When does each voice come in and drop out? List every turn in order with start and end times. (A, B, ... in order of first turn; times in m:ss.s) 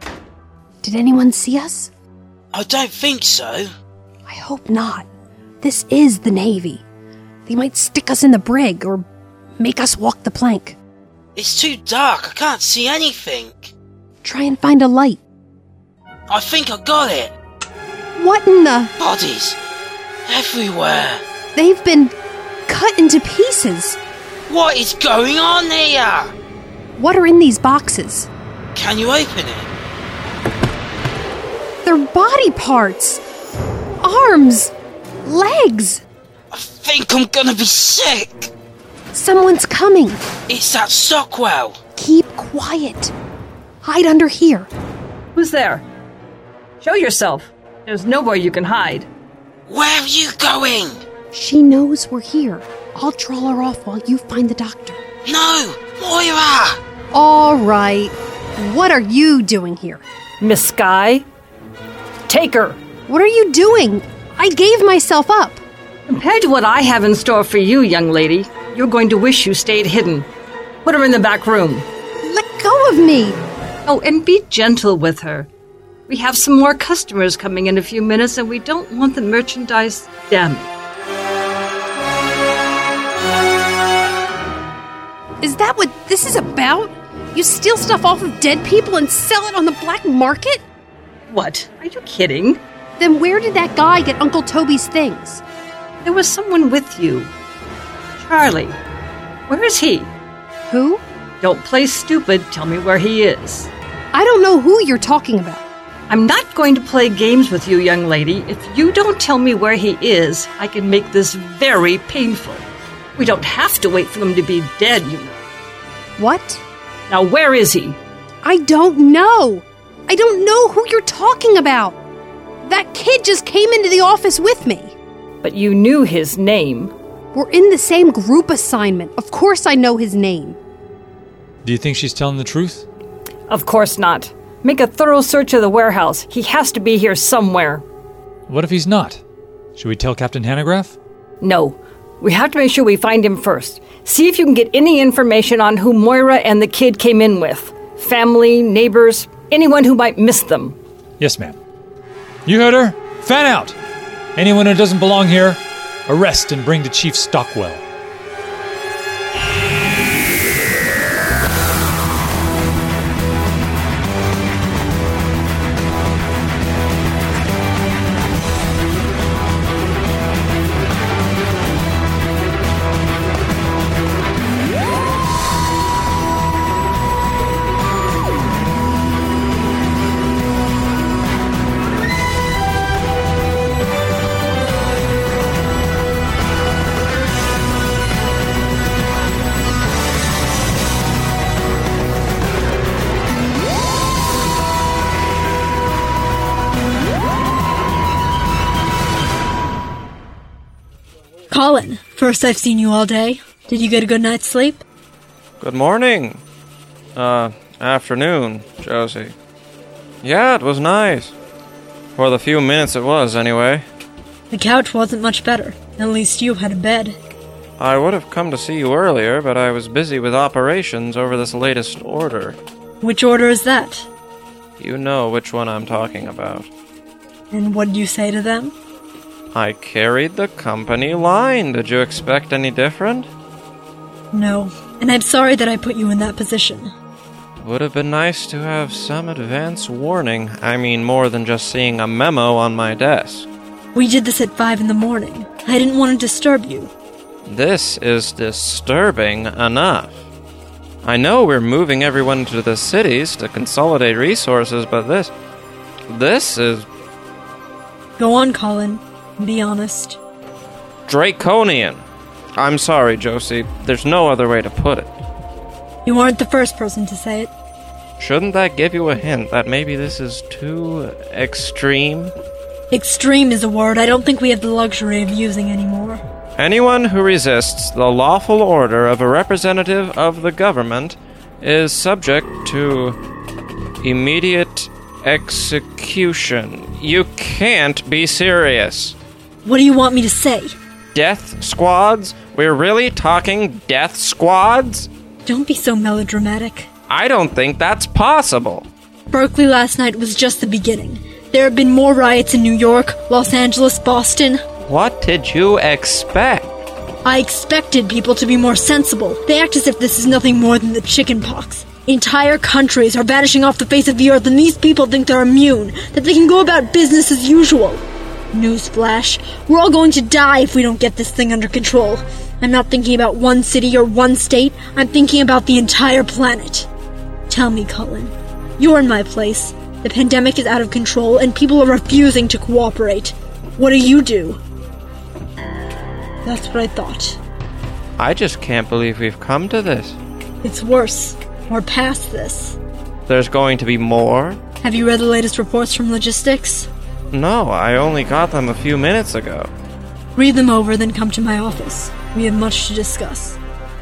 0:00.8-0:01.9 A
0:02.5-0:03.7 B
0:04.2-0:05.1 A
0:05.6-0:06.8 A
0:07.4-0:09.0 A
0:09.6-0:10.8 A
0:11.4-0:13.7 B
0:14.2-0:15.2 A
0:16.3-0:17.3 B
0:18.2-0:18.9 A
0:19.0-0:19.6 B
0:20.3-0:21.2 B
0:21.5-0:22.1 A
0:22.7-0:24.0 A
0:24.5-0:26.3 B
0:27.0-0:28.3 A
0:28.7-0:29.7 B
0:31.8-0:33.2 A
0:34.0-0:34.7 A
0:35.2-0:36.0 A
0:36.5-0:38.5 B
0:39.1-0:40.2 A
0:40.5-0:41.8 B
0:42.0-0:43.1 A
0:43.8-0:44.7 A
0:45.4-0:45.8 C
0:46.8-0:49.1 C
0:49.7-0:51.0 B
0:51.3-0:55.0 A
0:55.2-0:56.8 B
0:57.1-1:00.0 A
1:00.4-1:01.2 C
1:02.3-1:02.8 C
1:03.1-1:05.6 A
1:06.1-1:10.3 C
1:10.8-1:11.8 C
1:12.2-1:13.4 A
1:13.8-1:15.5 C
1:16.1-1:20.7 C
1:25.4-1:30.6 A
1:31.3-1:32.6 C
1:33.0-1:35.4 A
1:36.0-1:37.3 C
1:38.2-1:38.8 C
1:39.5-1:40.1 C
1:40.7-1:41.0 A
1:41.4-1:43.7 C
1:44.1-1:45.6 A
1:46.1-1:52.6 C
1:53.2-1:55.4 C
1:56.2-1:56.6 A
1:57.1-1:58.0 C
1:58.4-2:02.0 A
2:02.6-2:04.9 A
2:05.4-2:06.9 C
2:07.3-2:10.6 A
2:11.6-2:12.8 D
2:13.5-2:17.8 C
2:18.5-2:19.2 D
2:19.8-2:21.0 D
2:21.4-2:30.8 C
2:31.2-2:31.6 D
2:32.4-2:33.8 D
2:34.4-2:37.8 D
3:21.5-3:24.8 E
3:25.6-3:26.4 F
3:27.1-3:29.3 F
3:30.2-3:31.3 F
3:32.2-3:33.8 F
3:34.5-3:37.2 E
3:37.8-3:42.6 F
3:43.0-3:44.1 E
3:44.8-3:46.7 F
3:47.5-3:48.7 E
3:49.5-3:53.3 F
3:54.3-3:56.9 E
3:57.6-4:03.5 F
4:03.9-4:06.9 E
4:07.4-4:10.2 F
4:11.0-4:15.3 F
4:16.1-4:16.8 F
4:18.2-4:20.2 E
4:21.0-4:22.0 F
4:22.6-4:25.1 F
4:26.0-4:27.5 E
4:28.2-4:32.3 F
4:32.9-4:36.2 E
4:36.6-4:43.2 F
4:44.0-4:49.2 F
4:49.6-4:50.8 E
4:51.1-4:55.1 F
4:55.4-4:56.9 E
4:57.1-4:58.9 F
4:59.3-5:04.6 E
5:04.8-5:06.7 F
5:07.2-5:18.0 E
5:18.5-5:26.9 E
5:27.5-5:34.6 E
5:36.4-5:37.4 E
5:38.2-5:40.2 F
5:40.6-5:42.8 E
5:43.3-5:44.6 F
5:44.8-5:46.9 E
5:47.3-5:49.7 F
5:50.4-5:53.6 E